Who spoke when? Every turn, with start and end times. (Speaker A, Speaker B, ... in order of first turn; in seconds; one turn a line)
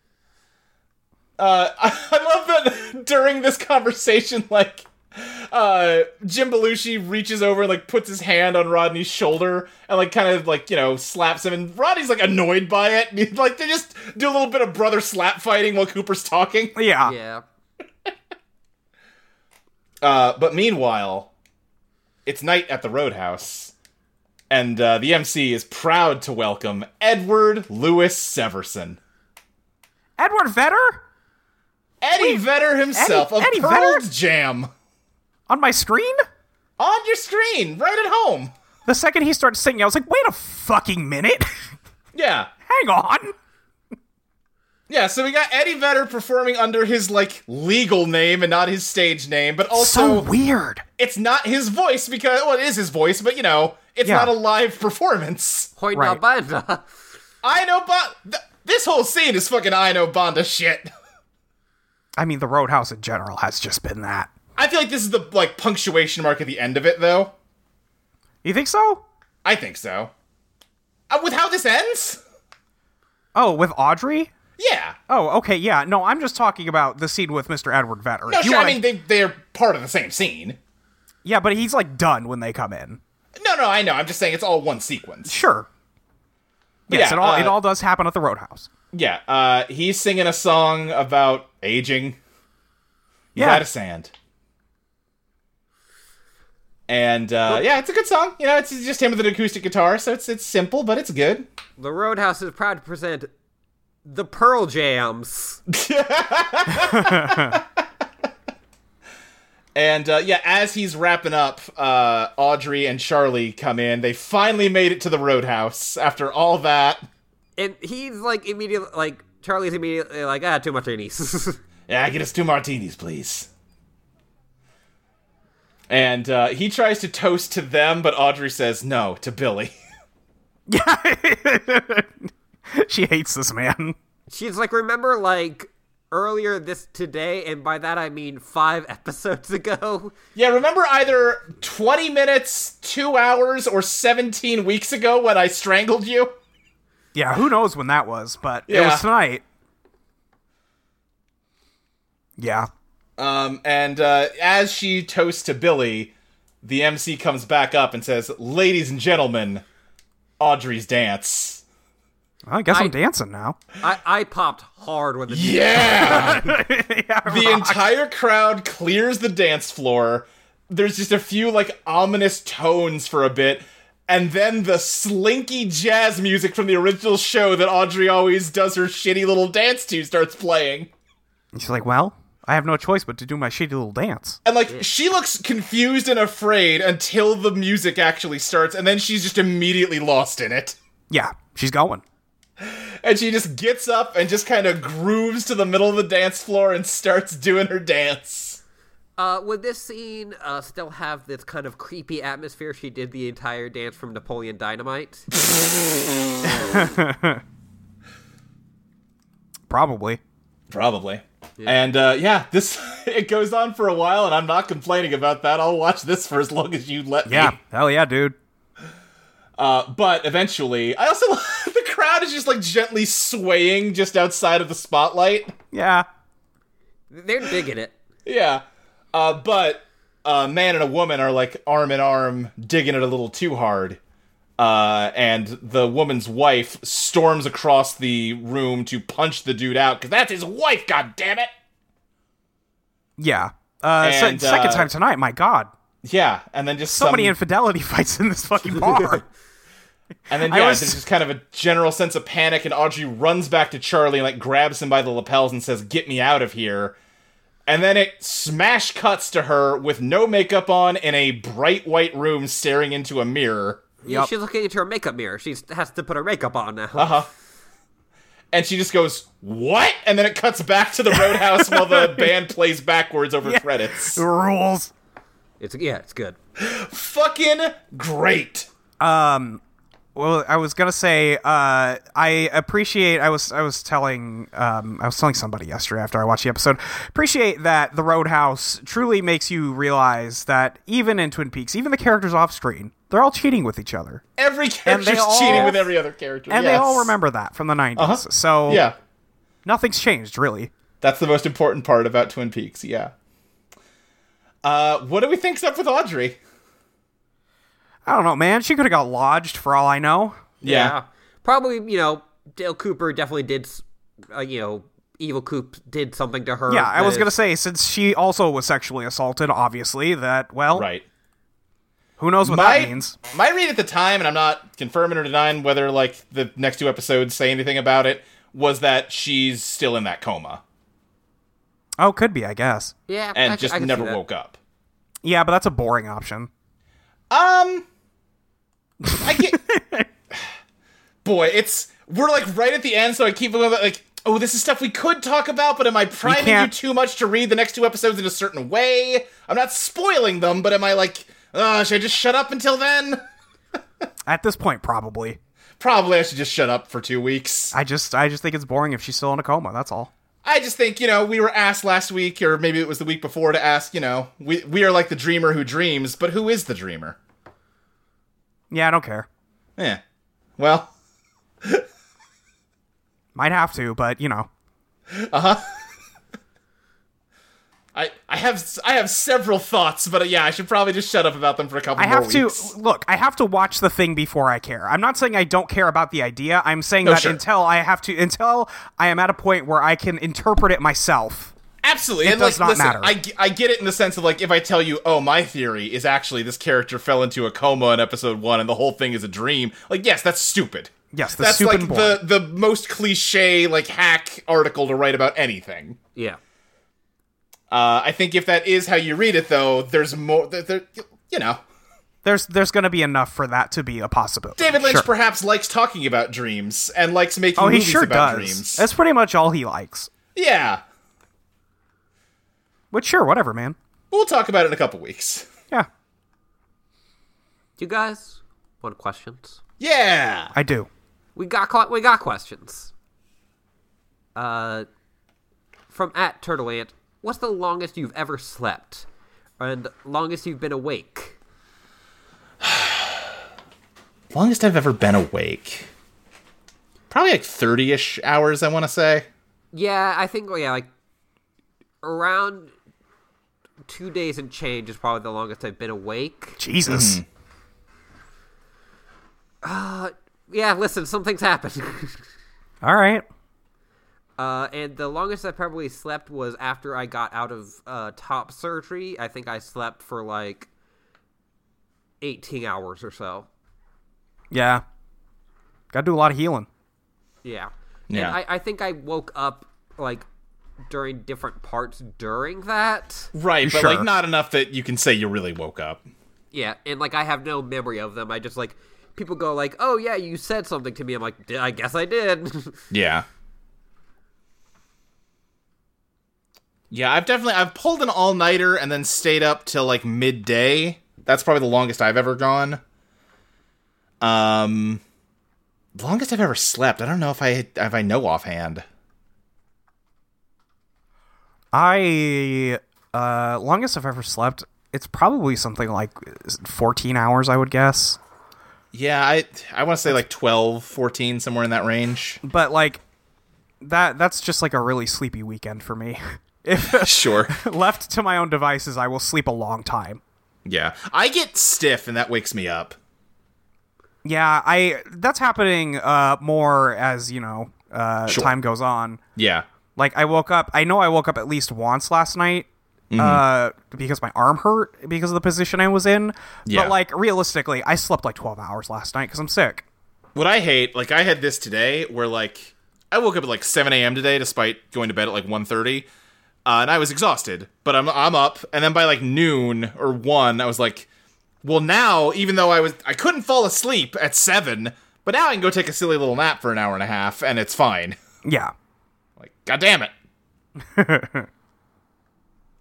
Speaker A: 1.4-16.8
Speaker B: 16.8-17.1
Speaker C: 17.0-17.4
Speaker A: 20.0-21.3
Speaker A: 22.2-23.7
Speaker A: 24.5-29.0
Speaker B: 30.2-31.0
Speaker A: 32.0-34.7
Speaker B: 32.1-32.4
Speaker B: 32.9-34.0
Speaker B: 35.5-36.2
Speaker A: 36.8-38.5
Speaker B: 38.9-41.5
Speaker A: 42.1-42.5
Speaker B: 42.7-43.3
Speaker A: 44.9-50.3
Speaker B: 49.7-50.8
Speaker A: 51.0-55.7
Speaker B: 54.0-54.3
Speaker C: 55.8-56.9
Speaker B: 55.9-56.2
Speaker A: 57.4-60.9
Speaker B: 62.2-64.3
Speaker A: 64.5-67.3
Speaker B: 68.4-69.0
Speaker A: 69.4-70.1
Speaker A: 71.1-72.2
Speaker B: 73.3-74.3
Speaker A: 74.6-75.0
Speaker B: 75.1-78.8
Speaker A: 78.3-80.6
Speaker B: 81.2-83.0
Speaker A: 83.4-85.4
Speaker B: 85.3-85.7
Speaker A: 86.9-87.6
Speaker B: 86.9-88.7
Speaker A: 88.9-92.2
Speaker A: 93.3-94.1
Speaker B: 93.3-93.6
Speaker A: 96.9-101.5
Speaker C: 101.8-103.3
Speaker C: 104.0-105.6
Speaker A: 105.7-107.8
Speaker B: 106.7-107.6
Speaker A: 109.7-117.0
Speaker C: 117.6-121.6
Speaker A: 121.9-123.5
Speaker A: 125.9-129.7
Speaker B: 130.7-133.9
Speaker C: 134.3-140.1
Speaker A: 140.3-146.3
Speaker B: 147.1-149.4
Speaker A: 148.7-149.1
Speaker B: 152.4-152.7
Speaker A: 153.2-159.6
Speaker A: 160.4-161.6
Speaker B: 162.5-163.6
Speaker C: 163.8-166.6
Speaker A: 165.3-166.5
Speaker B: 166.0-167.8
Speaker A: 167.2-180.9
Speaker B: 181.5-184.4
Speaker A: 184.4-190.8
Speaker B: 191.1-192.0
Speaker A: 192.6-198.6
Speaker C: 199.2-205.3
Speaker B: 206.4-207.4
Speaker B: 209.7-210.2
Speaker A: 210.7-217.6
Speaker B: 217.3-218.3
Speaker A: 219.6-225.5
Speaker B: 225.7-226.1
Speaker C: 227.1-227.9
Speaker A: 228.2-228.6
Speaker A: 229.1-234.0
Speaker A: 234.6-241.5
Speaker B: 243.2-245.7
Speaker A: 244.0-244.9
Speaker A: 246.0-247.3
Speaker B: 246.9-249.2
Speaker A: 250.3-256.9
Speaker B: 250.4-251.0
Speaker A: 257.7-263.9
Speaker C: 264.0-267.2
Speaker A: 266.9-267.3
Speaker A: 268.5-274.2
Speaker B: 271.1-272.3
Speaker B: 273.4-274.9
Speaker C: 275.6-276.4
Speaker A: 276.6-278.7
Speaker B: 279.0-279.6
Speaker B: 280.1-294.2
Speaker A: 294.4-297.1
Speaker B: 294.9-295.9
Speaker C: 295.5-295.7
Speaker B: 296.5-298.9
Speaker A: 298.0-298.9
Speaker B: 299.6-300.7
Speaker A: 301.0-303.1
Speaker A: 304.6-306.4
Speaker B: 308.1-310.4
Speaker A: 310.6-310.9
Speaker C: 310.6-317.3
Speaker B: 316.7-320.9
Speaker A: 320.7-321.0
Speaker B: 322.2-323.1
Speaker A: 322.4-330.6
Speaker B: 332.0-332.9
Speaker C: 333.1-334.2
Speaker A: 333.3-334.6
Speaker B: 335.2-336.5
Speaker A: 337.3-337.9
Speaker B: 339.0-340.1
Speaker A: 339.2-339.6
Speaker A: 341.2-353.2
Speaker B: 346.2-346.7
Speaker B: 354.3-355.4
Speaker A: 355.8-357.7
Speaker B: 357.7-360.1
Speaker A: 360.4-367.2
Speaker B: 368.7-369.3
Speaker A: 370.6-370.9
Speaker B: 373.3-374.5
Speaker A: 375.1-375.7
Speaker A: 377.9-382.7
Speaker B: 382.0-391.5
Speaker A: 387.0-387.4
Speaker A: 391.8-406.0
Speaker B: 392.2-393.1
Speaker B: 401.1-402.2
Speaker A: 407.7-411.6
Speaker B: 412.2-415.1
Speaker A: 414.6-418.8
Speaker B: 417.6-420.1
Speaker A: 420.3-420.8
Speaker B: 422.9-423.8
Speaker A: 424.1-425.5
Speaker C: 427.8-429.6
Speaker A: 429.8-430.5
Speaker B: 430.5-430.9
Speaker C: 431.4-432.9
Speaker C: 434.3-434.9
Speaker C: 435.9-439.1
Speaker C: 439.6-441.4
Speaker A: 442.6-443.3
Speaker A: 444.3-445.9
Speaker A: 447.1-449.3
Speaker C: 449.7-450.9
Speaker C: 452.0-452.7
Speaker C: 453.9-456.6
Speaker B: 456.6-457.2
Speaker A: 456.9-457.2
Speaker C: 459.6-462.2
Speaker B: 462.8-463.2
Speaker C: 464.4-470.7
Speaker C: 472.2-473.5
Speaker B: 474.5-474.8
Speaker B: 475.9-476.7
Speaker C: 477.4-480.2
Speaker A: 478.1-478.4
Speaker C: 480.9-483.3
Speaker A: 483.3-486.0
Speaker B: 483.6-484.1
Speaker C: 486.5-492.8
Speaker A: 492.9-493.2
Speaker A: 496.9-502.8
Speaker A: 504.2-505.0
Speaker A: 505.9-508.8
Speaker B: 511.7-518.2
Speaker A: 518.9-522.4
Speaker B: 522.4-523.0
Speaker B: 523.8-530.2
Speaker A: 526.9-527.6
Speaker A: 530.6-533.0
Speaker B: 534.2-539.2
Speaker A: 538.3-538.5
Speaker A: 539.4-539.6
Speaker B: 540.0-549.9
Speaker A: 543.1-543.4
Speaker A: 546.7-546.9
Speaker A: 550.3-556.1
Speaker A: 556.6-561.1
Speaker A: 561.6-568.2
Speaker B: 568.4-568.7
Speaker A: 569.4-570.1
Speaker B: 570.9-571.5